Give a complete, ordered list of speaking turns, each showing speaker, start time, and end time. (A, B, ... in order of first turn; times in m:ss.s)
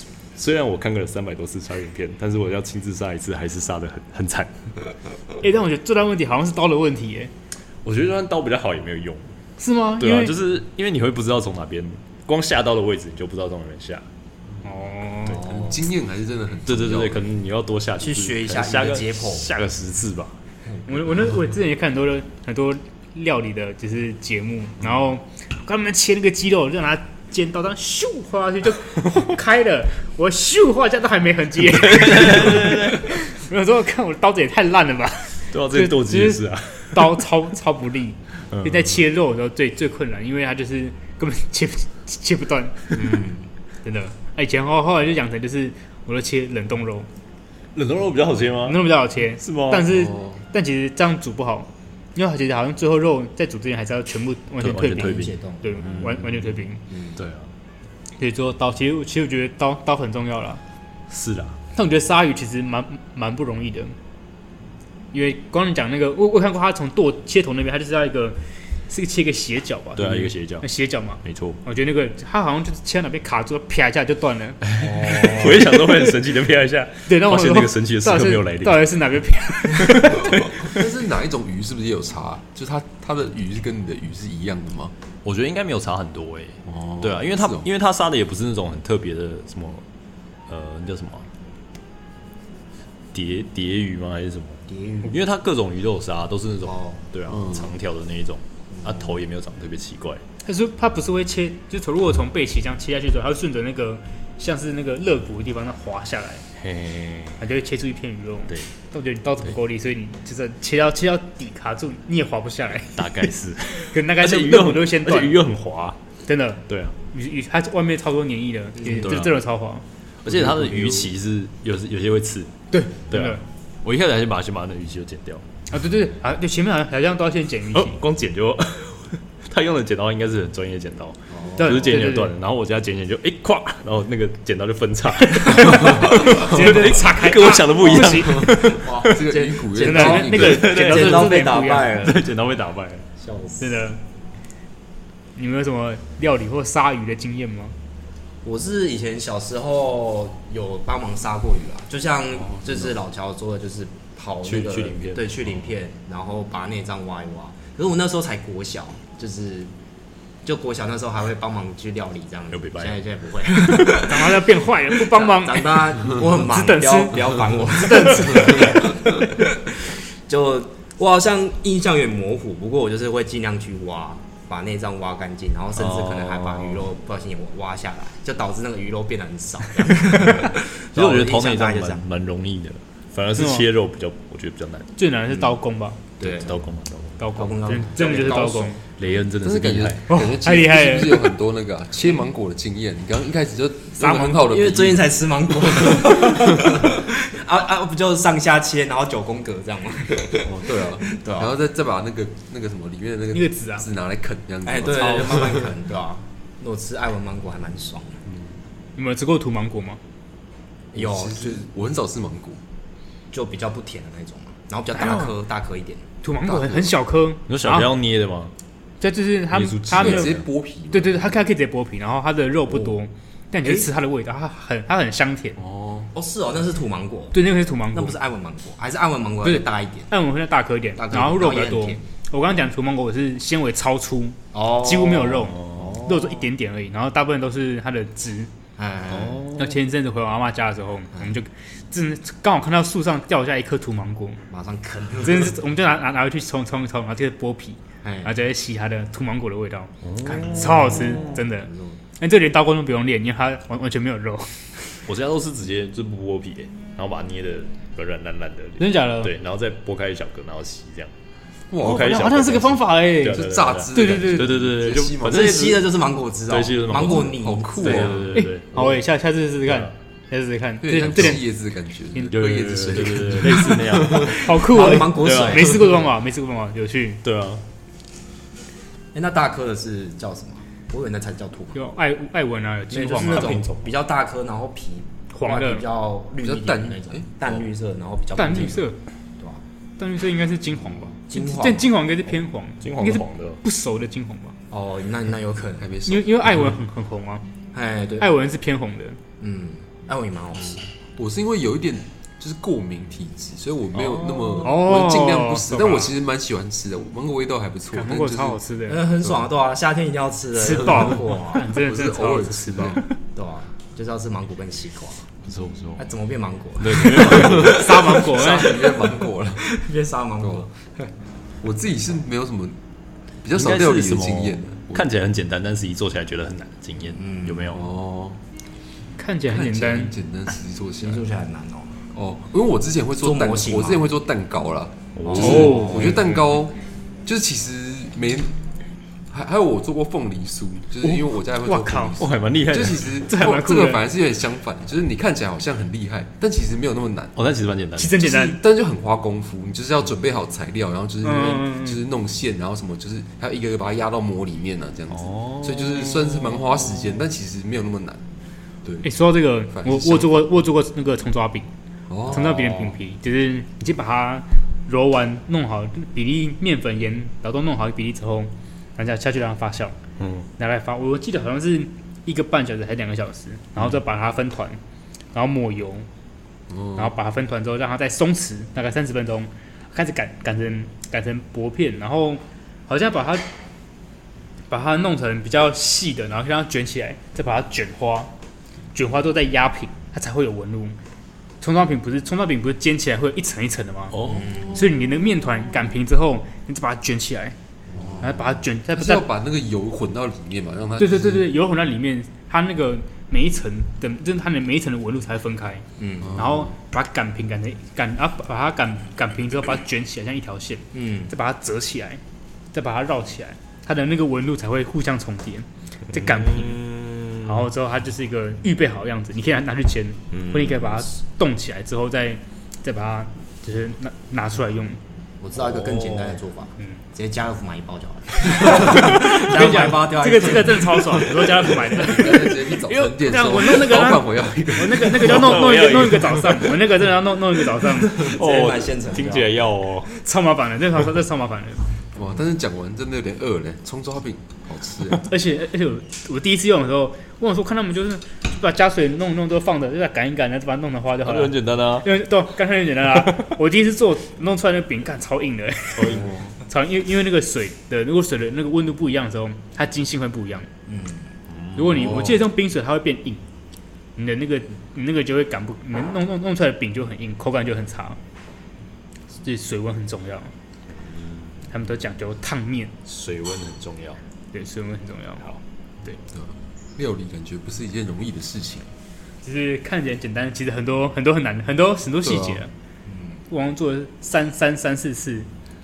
0:00.3-0:04.5 A
0:05.4-0:07.3 B
0:07.8-0:09.2 A
0:09.6-0:10.3 B
0:10.0-0:14.0 A
0:14.6-0:15.4 B
0:15.3-0:15.8 C
0:15.3-0:17.2 D
0:16.7-0:20.3 A
0:18.0-0:19.5 C
0:20.8-0:42.9 B
0:31.7-0:33.1 A
0:35.5-0:37.2 A
0:38.5-0:39.0 A
0:42.9-0:43.5 C
0:43.8-0:47.1 B
0:47.7-0:48.9 A
0:48.6-0:56.8 B
0:49.4-0:49.9 A
0:49.9-0:50.4 D
0:54.6-0:56.5 A
0:54.8-0:56.1 C
0:56.8-0:57.2 C
0:57.2-0:57.5 A
0:58.2-1:00.6 B
1:01.1-1:01.6 A
1:01.7-1:03.9 B
1:05.1-1:14.6 B
1:10.0-1:10.7 A
1:11.2-1:11.6 A
1:14.7-1:18.9 A
1:14.8-1:15.7 C
1:17.1-1:20.7 B
1:20.1-1:24.9 D
1:25.2-1:29.8 A
1:26.6-1:27.7 D
1:30.5-1:31.2 A
1:33.1-1:40.2 A
1:34.7-1:35.2 C
1:36.6-1:37.0 C
1:37.3-1:37.7 D
1:38.7-1:39.2 C
1:40.4-1:46.4 B
1:46.6-1:47.4 A
1:47.4-1:55.4 B
1:52.9-1:56.0 A
1:56.2-1:59.8 B
1:56.7-1:56.9 A
1:58.8-1:59.1 C
1:58.9-1:59.4 A
2:00.2-2:02.5 A
2:00.3-2:01.0 C
2:02.7-2:03.4 B
2:03.1-2:05.4 A
2:05.7-2:08.0 B
2:07.7-2:19.2 A
2:11.3-2:11.9 C
2:11.6-2:12.3 B
2:15.5-2:18.5 B
2:17.8-2:22.2 C
2:18.8-2:20.7 D
2:19.8-2:22.0 B
2:20.3-2:23.0 A
2:23.2-2:23.8 C
2:23.6-2:24.0 B
2:25.4-2:27.8 B
2:28.4-2:39.7 C
2:34.4-2:35.2 A
2:40.4-3:02.0 C
2:42.5-2:43.0 A
2:43.6-2:44.1 A
2:43.7-2:48.9 B
2:55.8-2:56.8 A
2:59.8-3:04.9 A
3:03.4-3:03.7 B
3:05.0-3:06.0 B
3:05.3-3:05.6 C
3:06.2-3:06.6 C
3:06.2-3:07.1 A
3:07.2-3:08.8 B
3:07.3-3:08.8 C
3:09.0-3:10.0 A
3:09.4-3:15.2 D
3:10.1-3:11.3 B
3:14.0-3:14.4 B
3:14.0-3:21.5 C
3:20.4-3:25.7 D
3:23.3-3:23.8 B
3:24.6-3:28.2 C
3:28.3-3:28.6 D
3:29.0-3:30.0 B
3:30.9-3:31.6 C
3:31.0-3:32.6 D
3:33.3-3:36.0 C
3:34.9-3:35.3 B
3:36.2-3:37.9 B
3:36.4-3:37.0 D
3:37.5-3:38.5 A
3:39.0-3:40.4 B
3:39.5-3:40.4 A
3:39.9-3:41.4 D
3:40.9-3:45.6 B
3:42.7-3:43.0 C
3:43.6-3:43.9 C
3:45.6-3:46.1 D
3:46.1-3:50.1 C
3:47.3-3:48.2 B
3:49.4-3:58.5 B
3:51.0-3:52.0 C
3:54.5-3:56.3 C
3:55.6-3:56.0 A
3:58.8-3:59.4 C
3:59.1-3:59.6 A
3:59.5-4:04.4 B
4:04.5-4:05.6 C
4:05.2-4:15.0 B
4:08.0-4:08.3 C
4:10.0-4:11.4 A
4:10.6-4:12.0 C
4:15.0-4:21.1 A
4:18.8-4:19.3 B
4:21.7-4:25.5 D
4:21.8-4:28.8 A
4:21.8-4:24.5 B
4:25.2-4:28.3 C
4:26.9-4:28.3 D
4:28.3-4:31.4 B
4:30.8-4:34.4 D
4:31.0-4:31.4 A
4:32.1-4:32.4 B
4:32.2-4:35.7 A
4:34.1-4:36.0 C
4:34.2-4:37.2 B
4:37.2-4:37.6 A
4:39.1-4:41.8 C
4:41.7-4:43.7 B
4:42.9-4:48.8 C
4:43.0-4:43.9 A
4:45.3-4:45.8 B
4:46.4-4:47.6 D
4:48.3-4:49.0 B
4:50.0-4:54.5 B
4:51.2-4:51.9 C
4:52.8-4:53.6 A
4:54.7-4:55.9 C
4:55.8-4:56.4 D
4:56.0-4:57.4 B
4:57.7-4:58.3 C
4:58.2-4:59.2 B
4:59.4-5:00.8 C
5:01.2-5:08.6 D
5:04.2-5:04.8 C
5:04.6-5:06.1 B
5:07.9-5:09.1 B
5:08.9-5:11.7 C
5:10.6-5:13.2 B
5:11.8-5:13.0 D
5:13.3-5:15.3 C
5:15.4-5:16.1 A
5:16.0-5:17.8 C
5:16.8-5:17.7 A
5:17.1-5:19.7 D
5:17.2-5:18.9 B
5:18.7-5:21.1 C
5:20.4-5:20.6 D
5:21.6-5:22.8 D
5:23.4-5:25.1 D
5:23.5-5:27.8 A
5:27.2-5:27.8 C
5:27.7-5:28.4 D
5:29.2-5:30.1 B
5:29.5-5:31.2 D
5:31.0-5:31.9 C
5:32.1-5:38.5 D
5:33.2-5:34.1 C
5:35.2-5:36.4 A
5:35.2-5:36.2 C
5:35.4-5:36.0 B
5:39.3-5:47.3 D
5:41.0-5:42.2 B
5:42.2-5:43.0 A
5:43.2-5:44.0 B
5:47.3-5:48.2 A
5:48.0-5:48.6 B
5:48.2-5:58.2 D
5:51.2-5:52.0 B
5:55.1-5:57.1 A
5:58.8-5:59.1 D
5:59.0-6:01.7 B
5:59.7-6:00.4 D
6:02.1-6:02.8 D
6:02.3-6:10.0 B
6:10.2-6:10.5 A
6:10.6-6:14.8 B
6:15.3-6:16.1 B
6:16.7-6:17.1 D
6:16.9-6:23.5 B
6:24.7-6:28.3 B
6:28.9-6:30.9 B
6:31.6-6:37.6 B
6:34.1-6:34.6 A
6:34.3-6:34.7 C
6:37.9-6:41.5 D
6:38.2-6:39.2 B
6:41.0-6:52.2 B
6:46.0-6:46.4 C
6:46.2-6:46.7 D
6:50.9-6:51.3 C
6:52.7-7:05.0 B
6:56.6-6:57.5 A
7:00.3-7:00.8 A
7:00.7-7:01.0 C
7:05.4-7:11.2 C
7:05.5-7:06.4 A
7:08.6-7:18.2 B
7:11.8-7:15.7 D
7:15.0-7:17.0 A
7:17.9-7:20.1 A
7:18.1-7:19.5 C
7:20.1-7:21.8 B
7:22.1-7:25.3 D
7:25.2-7:40.7 B
7:31.2-7:32.1 A
7:33.2-7:33.5 A
7:36.0-7:36.6 A
7:40.9-7:41.3 C
7:41.5-7:42.2 A
7:41.7-7:43.4 B
7:42.0-7:42.4 D
7:44.2-7:48.2 B
7:49.4-7:50.5 B
7:51.7-7:52.9 B
7:53.0-7:54.2 A
7:54.5-7:55.5 B
7:56.3-7:58.9 D
7:59.4-8:02.7 B
8:02.2-8:02.6 D
8:03.0-8:03.4 C
8:03.5-8:05.5 B